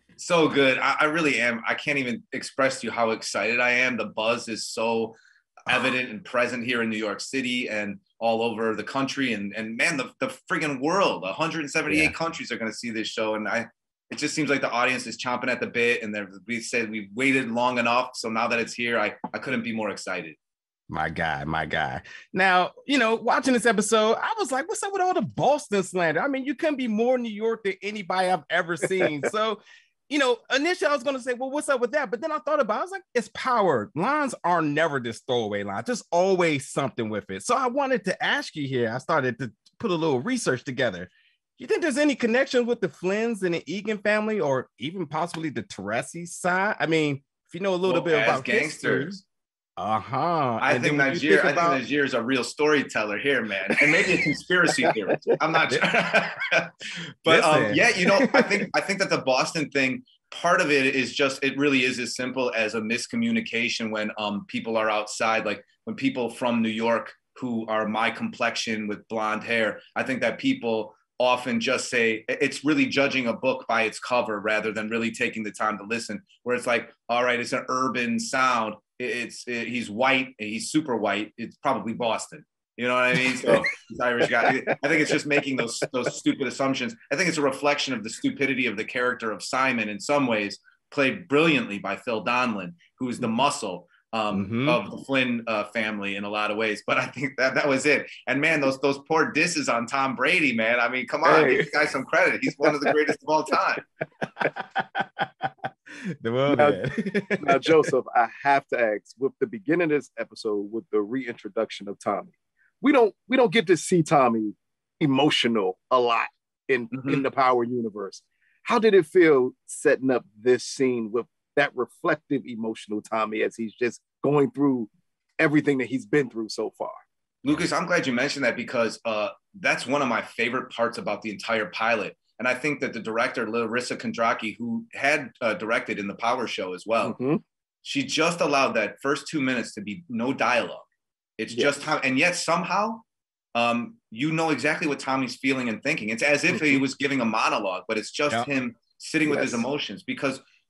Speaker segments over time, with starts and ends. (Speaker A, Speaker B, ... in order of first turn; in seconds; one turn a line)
Speaker A: 0.2-20.4
Speaker B: 11.9-12.1
Speaker B: 20.9-49.2
Speaker A: 47.8-49.2
Speaker B: 49.8-51.8
Speaker A: 50.6-56.7
Speaker A: 57.2-103.8
Speaker B: 57.2-58.6
Speaker B: 94.3-94.8
Speaker C: 101.2-101.7
Speaker B: 104.4-105.5
Speaker B: 106.2-107.8
Speaker C: 106.5-106.8
Speaker C: 107.4-127.0
Speaker A: 116.9-117.2
Speaker A: 127.4-137.2
Speaker C: 137.0-137.4
Speaker A: 137.8-140.9
Speaker A: 141.4-150.4
Speaker C: 141.5-141.9
Speaker C: 146.5-146.8
Speaker C: 149.2-149.7